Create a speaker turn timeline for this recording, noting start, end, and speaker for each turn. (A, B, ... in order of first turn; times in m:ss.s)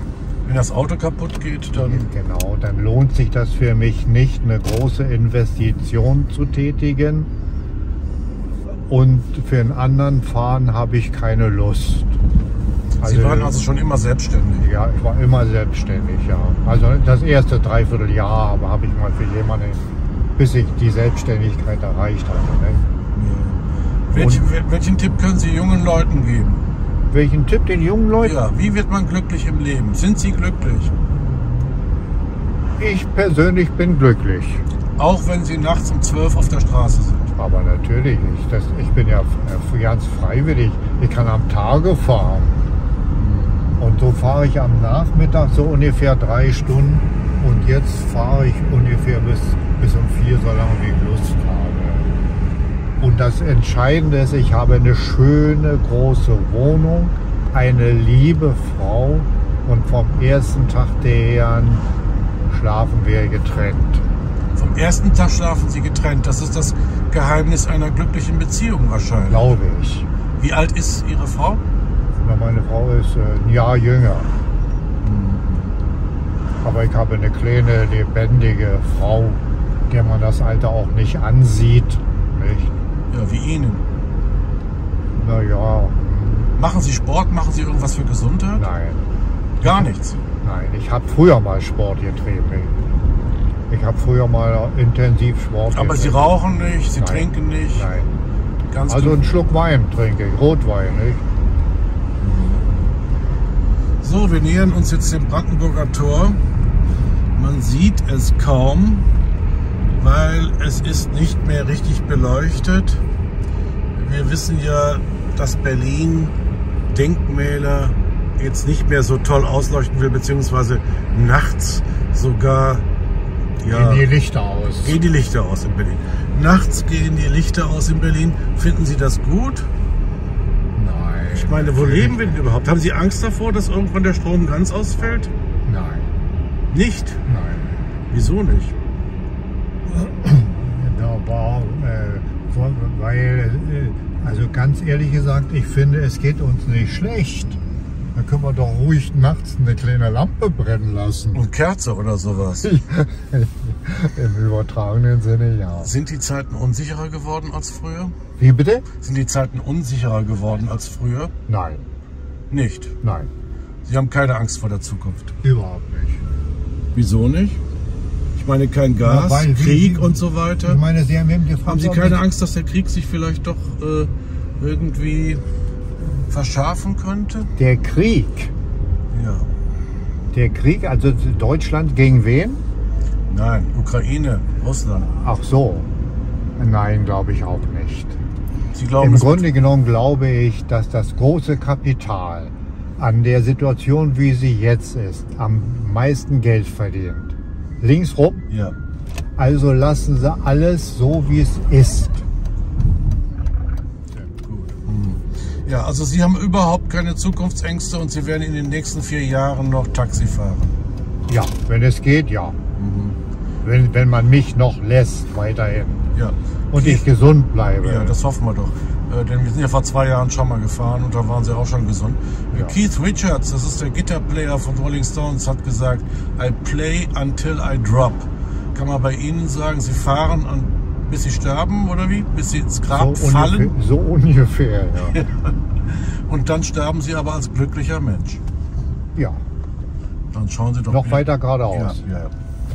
0:00.4-0:02.1 A
0:01.8-0:07.3 B
0:08.6-0:12.1 B
0:13.0-0:14.7 A
0:13.0-0:13.6 B
0:14.6-0:22.8 B
0:23.1-0:26.6 A
0:24.1-0:24.4 B
0:27.1-0:28.4 B
0:28.2-0:31.0 A
0:31.3-0:31.7 B
0:32.8-0:34.6 B
0:35.0-0:37.3 A
0:37.3-0:42.6 B
0:43.2-0:43.7 A
0:43.8-0:52.1 B
0:53.0-1:01.8 B
1:02.5-1:04.0 B
1:04.5-1:09.6 A
1:09.3-1:10.1 B
1:10.4-1:11.6 A
1:12.2-1:14.3 B
1:15.0-1:15.7 A
1:16.6-1:22.7 B
1:23.1-1:23.8 A
1:25.1-1:26.5 B
1:26.6-1:28.7 A
1:28.6-1:29.0 B
1:29.6-1:30.2 A
1:29.6-1:29.9 B
1:30.4-1:32.8 B
1:33.7-1:36.4 B
1:35.7-1:37.9 A
1:37.0-1:38.1 B
1:38.7-1:39.3 A
1:38.9-1:41.2 B
1:42.2-1:42.7 A
1:44.0-1:46.4 A
1:47.3-1:49.1 A
1:50.0-1:53.0 A
1:53.9-1:56.3 A
1:56.9-2:02.8 A
2:03.6-2:04.1 A
2:03.6-2:05.0 B
2:04.8-2:09.7 A
2:10.7-2:12.4 B
2:11.3-2:15.3 A
2:15.6-2:16.1 B
2:16.7-2:17.2 A
2:17.2-2:17.8 B
2:18.1-2:18.7 A
2:19.8-2:27.6 B
2:28.1-2:31.5 B
2:31.3-2:32.7 A
2:32.6-2:35.9 B
2:35.8-2:38.1 A
2:38.4-2:38.8 B
2:39.0-2:41.3 A
2:41.5-2:41.8 B
2:42.5-2:42.9 A
2:43.0-2:43.3 B
2:43.8-2:45.3 A
2:45.4-2:46.3 B
2:46.9-2:47.6 A
2:48.3-2:50.8 A
2:49.0-2:52.2 B
2:51.6-2:55.4 A
2:56.3-2:57.5 A
2:57.6-2:58.5 B
2:59.1-2:59.5 A
3:00.3-3:02.6 B
3:03.3-3:05.1 A
3:05.0-3:05.9 B
3:06.6-3:08.2 B
3:08.7-3:09.5 A
3:09.0-3:18.4 B
3:18.5-3:18.8 A
3:19.4-3:22.2 B
3:24.4-3:30.7 A
3:31.3-3:32.6 B
3:32.8-3:33.2 A
3:33.6-3:36.0 B
3:36.1-3:37.1 A
3:36.7-3:38.2 B
3:37.8-3:53.7 A
3:42.5-3:42.8 B
3:52.9-3:55.2 B
3:55.0-3:58.4 A
3:59.2-3:59.4 B
4:00.3-4:02.3 A
4:00.9-4:02.0 B